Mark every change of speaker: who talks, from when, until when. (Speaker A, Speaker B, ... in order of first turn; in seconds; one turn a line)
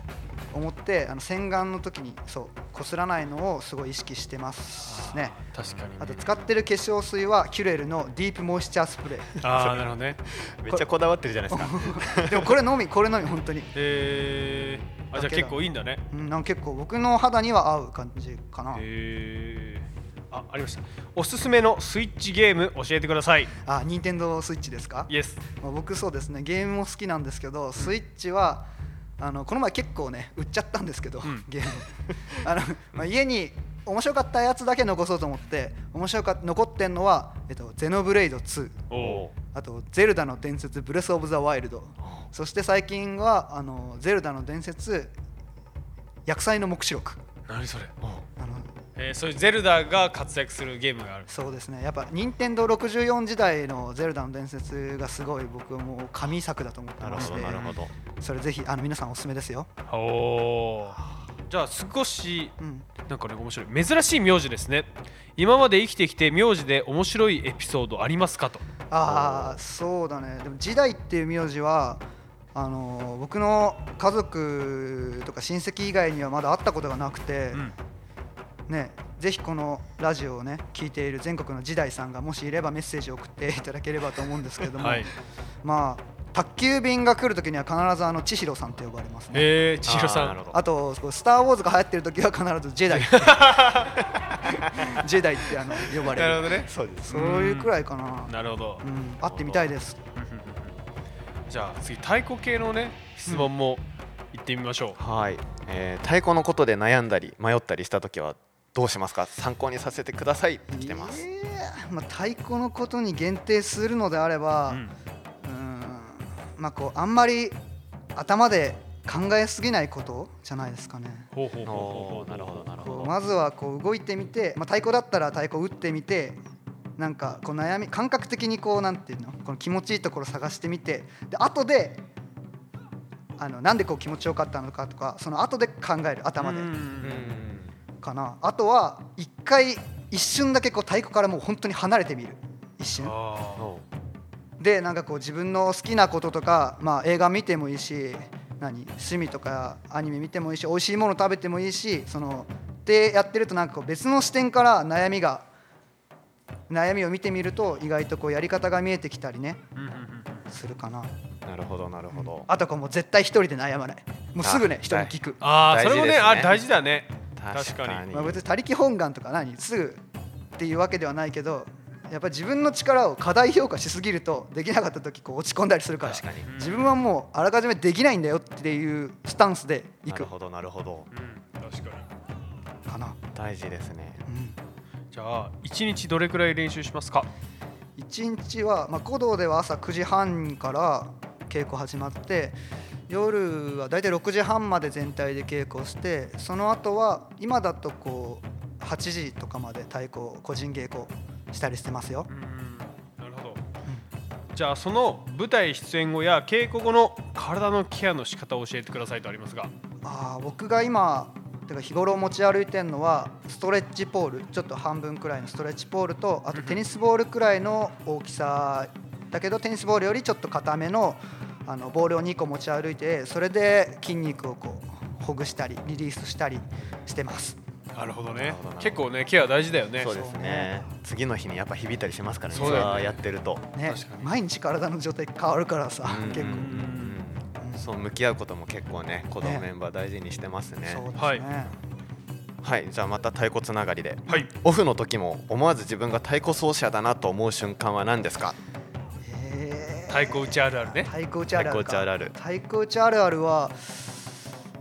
Speaker A: 0.5-5.4
Speaker B: 4.9-6.4
Speaker A: 6.0-9.4
Speaker B: 9.4-10.2
Speaker C: 9.4-12.6
Speaker A: 11.5-13.7
Speaker B: 13.7-16.0
Speaker A: 15.1-18.8
Speaker B: 18.8-23.5
Speaker A: 23.6-28.7
Speaker B: 25.1-25.4
Speaker A: 29.2-38.9
Speaker B: 38.9-39.3
Speaker C: 38.9-39.3
Speaker A: 39.5-45.1
Speaker A: 46.3-47.2
Speaker B: 47.5-47.9
Speaker A: 48.4-48.7
Speaker B: 49.0-51.3
Speaker A: 51.3-59.7
Speaker C: 57.0-57.9
Speaker B: 57.1-57.8
Speaker B: 59.9-62.6
Speaker A: 62.6-62.9
Speaker B: 63.1-68.6
Speaker A: 68.9-72.0
Speaker C: 69.0-69.6
Speaker A: 72.5-77.7
Speaker A: 78.7-85.1
Speaker B: 84.7-85.1
Speaker A: 85.6-89.5
Speaker B: 89.3-90.4
Speaker C: 89.8-90.6
Speaker A: 90.5-93.6
Speaker B: 92.9-94.0
Speaker C: 94.0-95.0
Speaker A: 94.5-96.5
Speaker C: 96.0-97.2
Speaker B: 96.1-98.8
Speaker A: 97.1-100.0
Speaker C: 99.3-99.7
Speaker B: 100.2-100.7
Speaker B: 101.5-105.0
Speaker C: 105.0-111.2
Speaker A: 110.7-114.8
Speaker A: 115.4-117.6
Speaker A: 118.2-121.3
Speaker B: 121.3-122.7
Speaker C: 121.7-123.1
Speaker A: 122.8-126.4
Speaker A: 127.0-132.0
Speaker A: 133.4-136.7
Speaker B: 136.4-137.5
Speaker C: 137.0-137.8
Speaker A: 138.0-143.2
Speaker B: 143.0-143.7
Speaker C: 143.6-143.9
Speaker A: 144.6-155.5
Speaker A: 156.7-159.6
Speaker B: 159.8-160.4
Speaker A: 160.5-161.1
Speaker C: 161.4-162.5
Speaker A: 162.1-165.4
Speaker C: 164.4-166.6
Speaker B: 165.4-168.0
Speaker C: 167.4-168.4
Speaker A: 168.1-170.0
Speaker A: 170.6-180.3
Speaker C: 176.0-176.5
Speaker B: 176.5-176.9
Speaker C: 180.1-181.1
Speaker B: 181.1-182.1
Speaker A: 182.9-183.2
Speaker C: 183.3-184.2
Speaker A: 184.3-184.6
Speaker B: 185.1-187.3
Speaker A: 188.0-202.3
Speaker B: 202.3-203.6
Speaker B: 204.5-209.7
Speaker A: 210.0-227.6
Speaker B: 216.5-216.8
Speaker B: 227.9-230.1
Speaker C: 228.3-229.1
Speaker C: 230.0-233.7
Speaker A: 230.1-230.7
Speaker B: 232.5-233.2
Speaker A: 232.6-233.0
Speaker A: 233.8-236.8
Speaker B: 233.9-234.3
Speaker C: 236.0-241.1
Speaker B: 236.3-237.2
Speaker A: 237.6-237.8
Speaker A: 239.4-239.7
Speaker A: 240.9-241.8
Speaker B: 241.2-241.4
Speaker C: 242.6-248.6
Speaker A: 249.2-254.3
Speaker B: 250.1-251.1
Speaker C: 251.5-252.3